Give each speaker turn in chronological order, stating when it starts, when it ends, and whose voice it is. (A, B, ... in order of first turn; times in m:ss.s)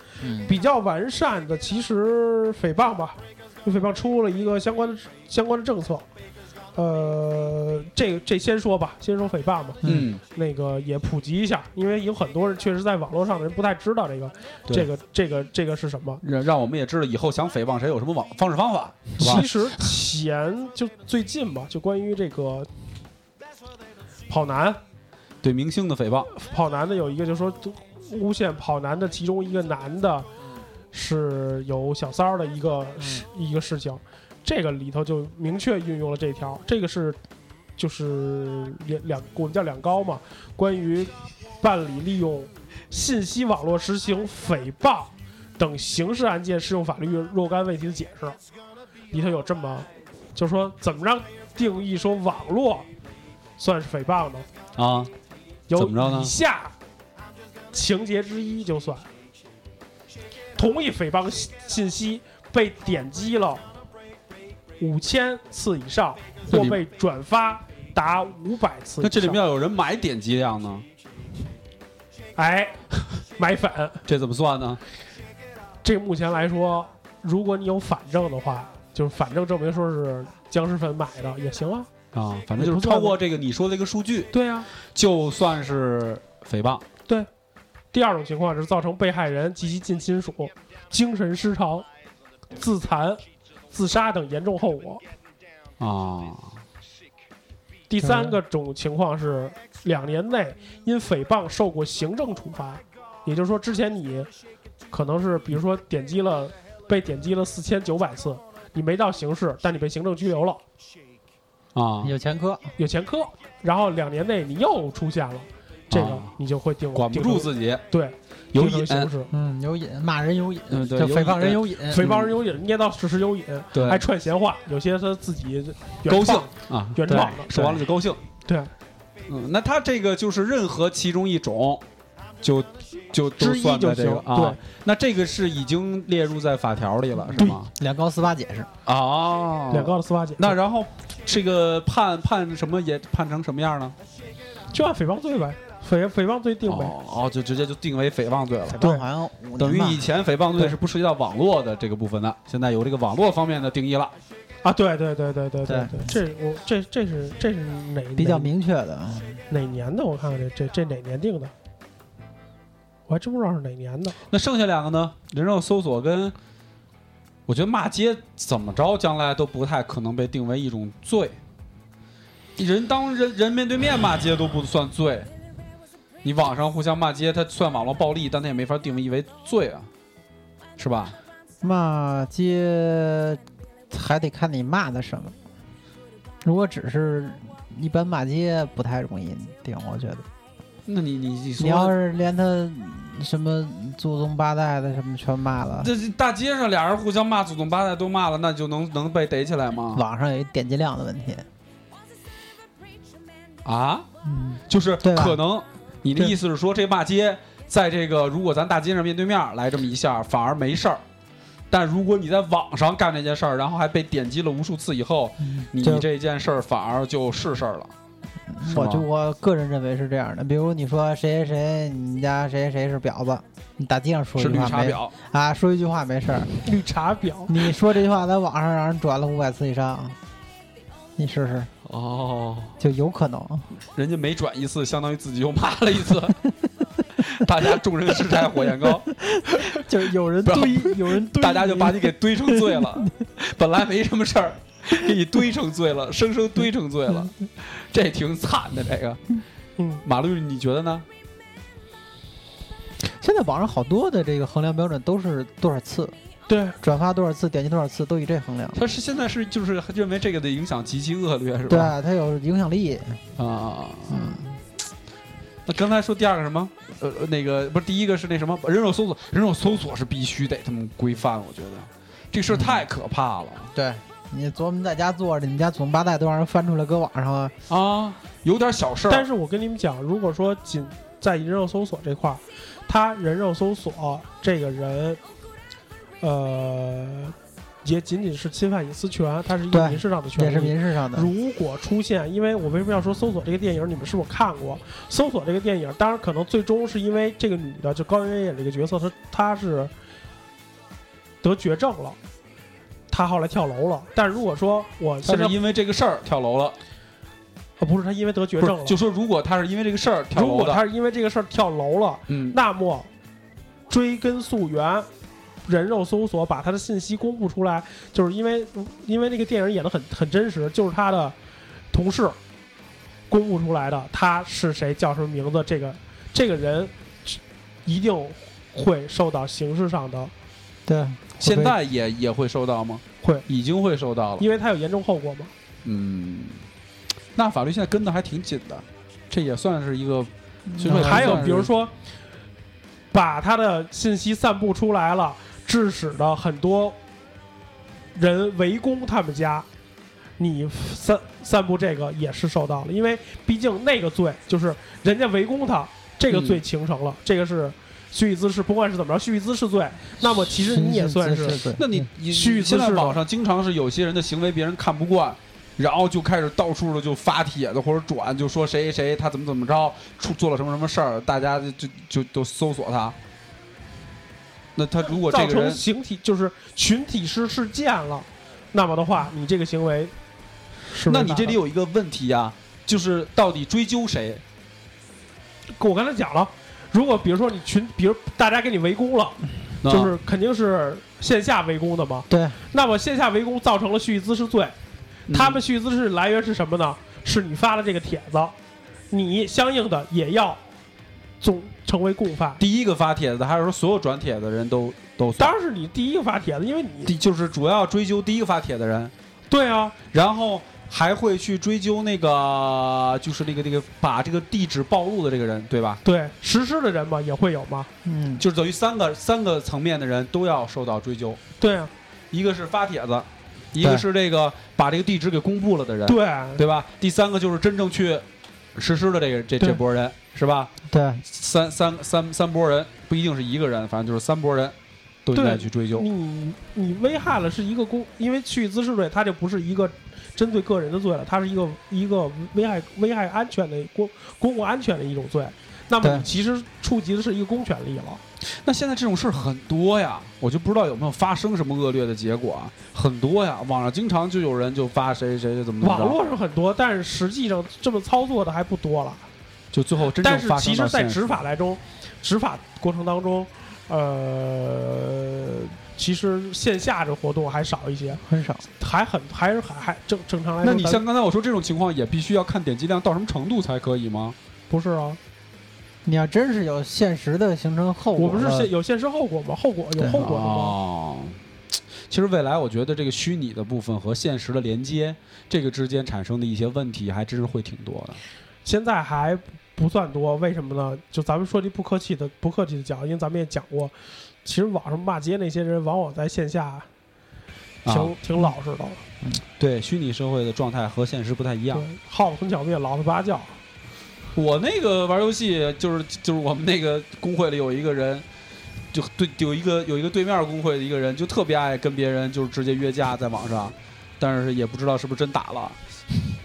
0:00.2-0:00.5 A
0:00.5-0:06.1 B
0:06.8-0:16.2 B
0:09.8-0:10.1 A
0:09.8-0:10.2 C
0:16.2-0:19.8 C
0:19.2-0:22.7 B
0:24.3-0:24.8 B
0:25.4-0:26.3 C
0:26.3-0:30.3 B
0:30.9-0:37.2 B
0:37.8-0:48.4 B
0:49.1-0:52.9 B
0:53.6-0:54.5 B
0:54.8-0:55.1 C
0:55.7-0:56.7 B
0:55.8-0:56.3 C
0:57.7-0:59.1 B
1:00.6-1:03.6 B
1:04.8-1:09.4 B
1:06.5-1:06.8 C
1:09.0-1:10.8 C
1:12.4-1:12.8 B
1:13.4-1:14.0 B
1:14.1-1:14.8 C
1:15.8-1:21.9 B
1:22.1-1:24.3 C
1:22.6-1:23.1 B
1:24.3-1:24.7 B
1:24.9-1:26.8 C
1:27.9-1:31.9 B
1:32.6-1:35.0 B
1:35.8-1:36.6 C
1:37.9-1:44.3 B
1:38.0-1:38.4 A
1:44.9-1:50.6 B
1:51.8-1:52.1 C
1:52.0-1:52.7 A
1:52.8-1:59.3 B
1:55.9-1:56.3 C
1:56.9-1:57.8 C
1:58.5-1:59.1 C
1:59.3-2:02.1 A
2:00.7-2:02.3 C
2:01.9-2:07.5 B
2:03.7-2:04.0 C
2:06.1-2:08.2 C
2:07.1-2:07.8 A
2:08.4-2:08.7 B
2:09.3-2:11.8 C
2:12.4-2:17.7 C
2:13.4-2:14.6 B
2:17.3-2:18.7 A
2:18.9-2:24.0 C
2:19.7-2:20.6 B
2:24.7-2:26.9 B
2:26.7-2:28.8 C
2:28.7-2:30.1 A
2:29.6-2:34.1 C
2:34.6-2:38.5 B
2:35.7-2:36.1 A
2:38.2-2:39.4 A
2:39.5-2:41.5 B
2:43.1-2:44.2 B
2:44.3-2:46.4 C
2:47.5-2:51.4 C
2:52.6-2:55.3 C
2:56.2-2:59.9 C
3:00.8-3:01.2 C
3:01.6-3:05.4 A
3:06.4-3:10.3 A
3:10.9-3:12.0 C
3:11.6-3:15.9 A
3:15.8-3:20.0 C
3:19.9-3:21.5 A
3:23.6-3:24.1 C
3:24.2-3:25.4 A
3:24.7-3:31.0 C
3:31.7-3:37.9 C
3:35.4-3:36.1 A
3:38.5-3:46.5 A
3:38.6-3:39.0 C
3:44.4-3:45.1 C
3:46.7-3:47.6 B
3:47.5-3:50.2 A
3:51.2-3:51.7 A
3:51.9-3:52.8 C
3:52.8-3:53.7 A
3:54.0-3:56.4 C
3:57.2-3:59.8 C
3:58.8-4:03.1 A
4:00.4-4:09.4 C
4:10.0-4:11.1 C
4:13.0-4:16.2 A
4:16.5-4:16.8 B
4:16.8-4:18.8 A
4:18.8-4:21.9 C
4:21.7-4:23.2 A
4:23.4-4:24.5 C
4:24.1-4:24.5 A
4:25.7-4:33.7 C
4:32.5-4:32.8 A
4:33.7-4:37.6 A
4:37.7-4:39.3 C
4:39.1-4:45.2 B
4:46.2-4:59.9 B
4:49.7-4:51.3 A
5:01.4-5:02.2 B
5:03.1-5:05.6 B
5:05.2-5:06.8 C
5:07.8-5:09.0 B
5:08.6-5:10.8 C
5:10.3-5:13.1 B
5:12.3-5:12.6 C
5:13.9-5:15.1 B
5:15.6-5:21.4 B
5:21.9-5:22.4 B
5:23.3-5:30.3 B
5:30.9-5:31.8 A
5:31.4-5:34.5 C
5:34.4-5:35.5 B
5:35.8-5:36.7 C
5:37.4-5:41.7 C
5:40.7-5:41.5 A
5:40.9-5:41.9 B
5:43.1-5:47.0 B
5:48.2-5:49.7 B
5:50.4-6:01.6 B
5:56.3-5:56.6 C
6:00.5-6:02.1 A
6:01.8-6:13.2 C
6:02.3-6:03.2 B
6:14.8-6:15.8 C
6:15.0-6:20.1 B
6:20.9-6:21.6 B
6:21.1-6:24.4 C
6:25.8-6:34.8 B
6:29.8-6:30.1 C
6:32.3-6:32.6 A
6:35.3-6:35.6 C
6:35.3-6:38.6 B
6:39.1-6:40.6 B
6:41.4-6:42.6 B
6:42.6-6:45.5 C
6:45.4-6:47.1 B
6:47.1-6:49.1 C
6:49.5-6:50.0 B
6:50.1-6:56.0 C
6:56.0-6:57.9 B
6:58.0-6:58.4 A
6:58.4-7:01.4 C
7:01.6-7:01.9 B
7:02.3-7:08.2 C
7:03.8-7:04.0 A
7:06.1-7:06.6 B
7:08.8-7:10.7 C
7:10.9-7:11.2 A
7:11.3-7:16.1 C
7:15.3-7:28.2 B
7:26.0-7:26.3 A
7:28.6-7:36.2 C
7:35.8-7:39.3 B
7:39.7-7:41.4 C
7:40.2-7:48.2 B
7:48.2-7:48.6 A
7:48.8-7:51.0 B
7:50.6-7:54.4 C
7:54.7-7:55.2 B
7:56.0-7:58.7 A
7:58.2-8:00.8 B
8:00.1-8:01.4 C
8:02.1-8:08.2 C
8:08.6-8:16.9 B
8:17.8-8:18.2 C
8:17.9-8:19.0 B
8:19.6-8:21.9 C
8:21.7-8:23.6 B
8:24.4-8:28.2 C
8:28.9-8:35.8 C